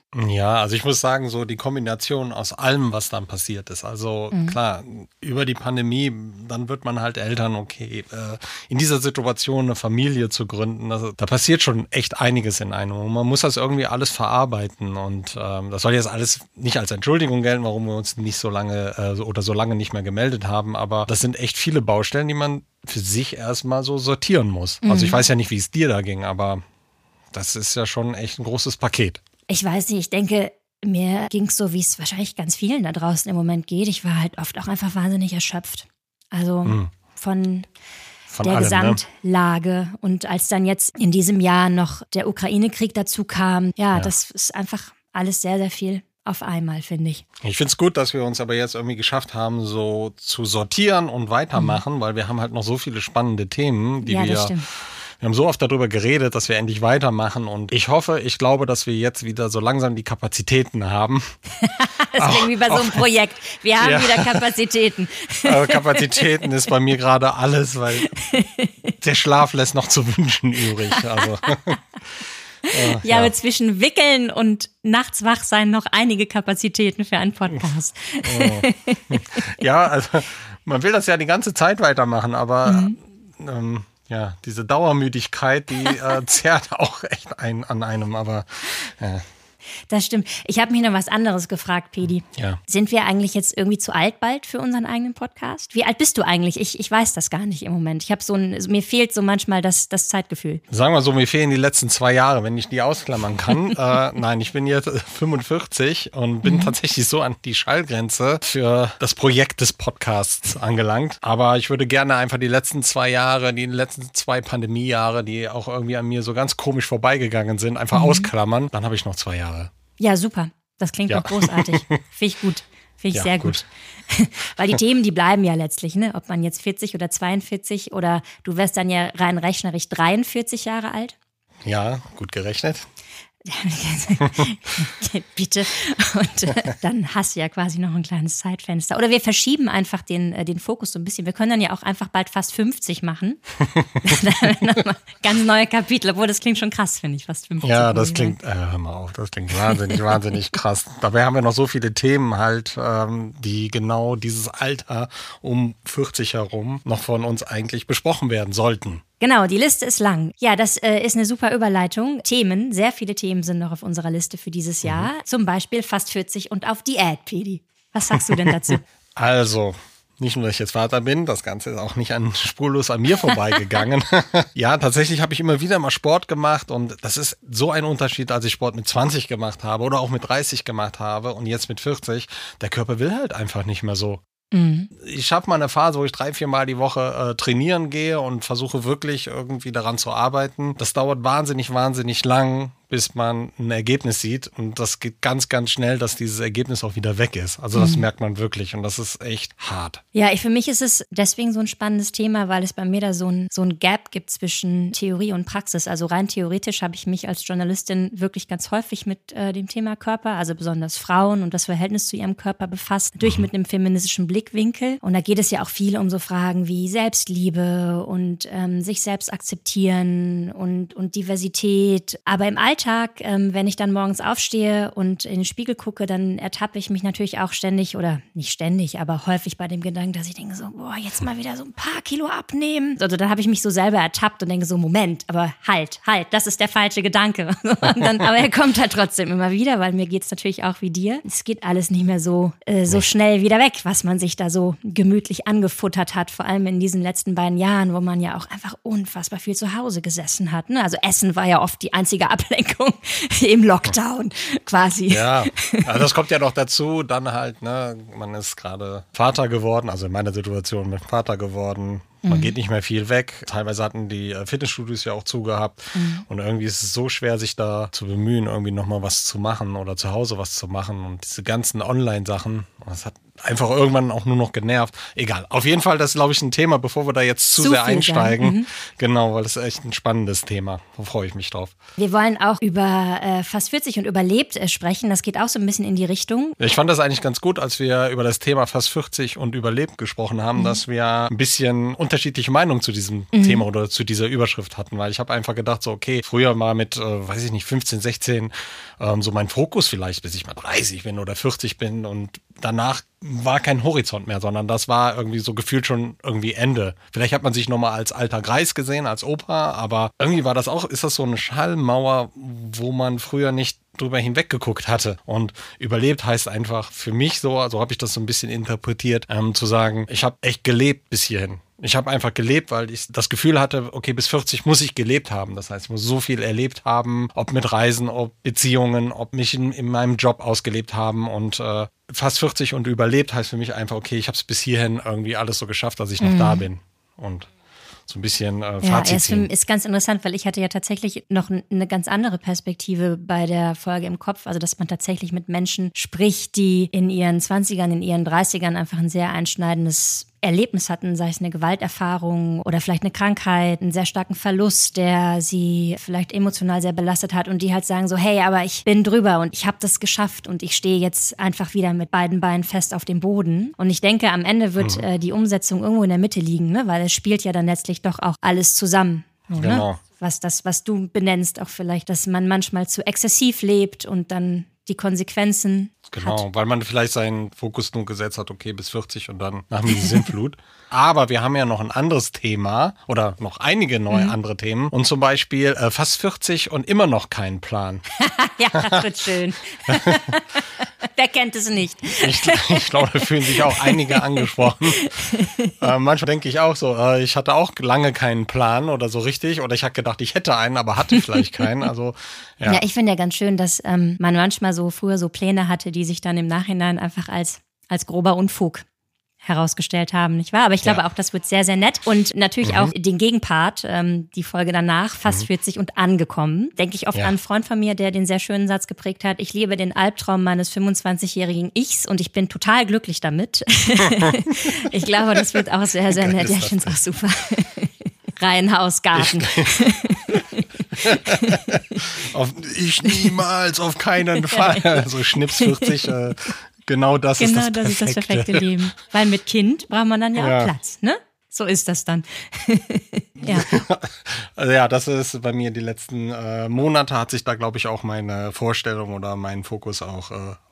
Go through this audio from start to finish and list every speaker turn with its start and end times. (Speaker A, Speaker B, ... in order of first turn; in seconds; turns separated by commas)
Speaker A: 0.1-26.6, Speaker B: 4.3-4.6, Speaker B: 24.8-25.2, Speaker A: 27.3-29.2, Speaker B: 29.5-37.7, Speaker A: 36.6-36.9, Speaker A: 38.3-39.0, Speaker B: 38.4-47.2, Speaker A: 47.4-54.6, Speaker B: 51.5-51.8, Speaker B: 54.0-54.6, Speaker A: 55.2-61.3, Speaker B: 61.6-66.3, Speaker A: 62.2-63.0, Speaker A: 63.8-64.5, Speaker A: 65.4-68.1, Speaker B: 68.2-68.7, Speaker A: 69.0-71.8, Speaker B: 72.7-79.4, Speaker A: 72.7-73.3, Speaker A: 78.2-89.2, Speaker B: 82.7-83.0, Speaker B: 89.9-100.6, Speaker A: 100.7-119.7, Speaker B: 106.4-106.7, Speaker B: 117.9-118.3, Speaker B: 120.0-131.1, Speaker A: 121.1-122.0, Speaker A: 123.1-123.6, Speaker A: 131.7-132.8, Speaker B: 133.4-143.4, Speaker B: 144.0-148.4, Speaker A: 147.6-159.0, Speaker B: 149.6-150.1, Speaker B: 159.2-168.8, Speaker A: 164.8-165.1, Speaker A: 168.2-184.2, Speaker B: 184.5-184.9, Speaker A: 184.9-200.0, Speaker B: 197.7-198.0, Speaker B: 200.1-255.8, Speaker A: 255.1-281.7, Speaker B: 262.2-262.5, Speaker B: 265.9-266.2, Speaker B: 277.6-278.7, Speaker B: 282.0-286.6, Speaker A: 286.6-337.5, Speaker B: 290.5-290.8, Speaker B: 293.3-293.6, Speaker B: 336.2-336.7, Speaker A: 338.1-339.5, Speaker B: 338.8-376.4, Speaker A: 364.8-365.0, Speaker A: 369.6-370.0, Speaker A: 376.1-388.1, Speaker B: 379.9-380.2, Speaker B: 384.1-384.3, Speaker B: 388.2-395.7, Speaker A: 388.7-389.1, Speaker A: 389.9-390.2, Speaker A: 392.2-395.1, Speaker A: 395.8-402.8, Speaker B: 402.6-408.8, Speaker B: 409.4-431.7, Speaker A: 412.6-412.9, Speaker A: 426.1-427.0, Speaker A: 429.1-430.4, Speaker A: 431.0-438.7, Speaker B: 434.4-436.1, Speaker B: 437.4-443.7, Speaker A: 440.4-440.7, Speaker A: 443.4-450.6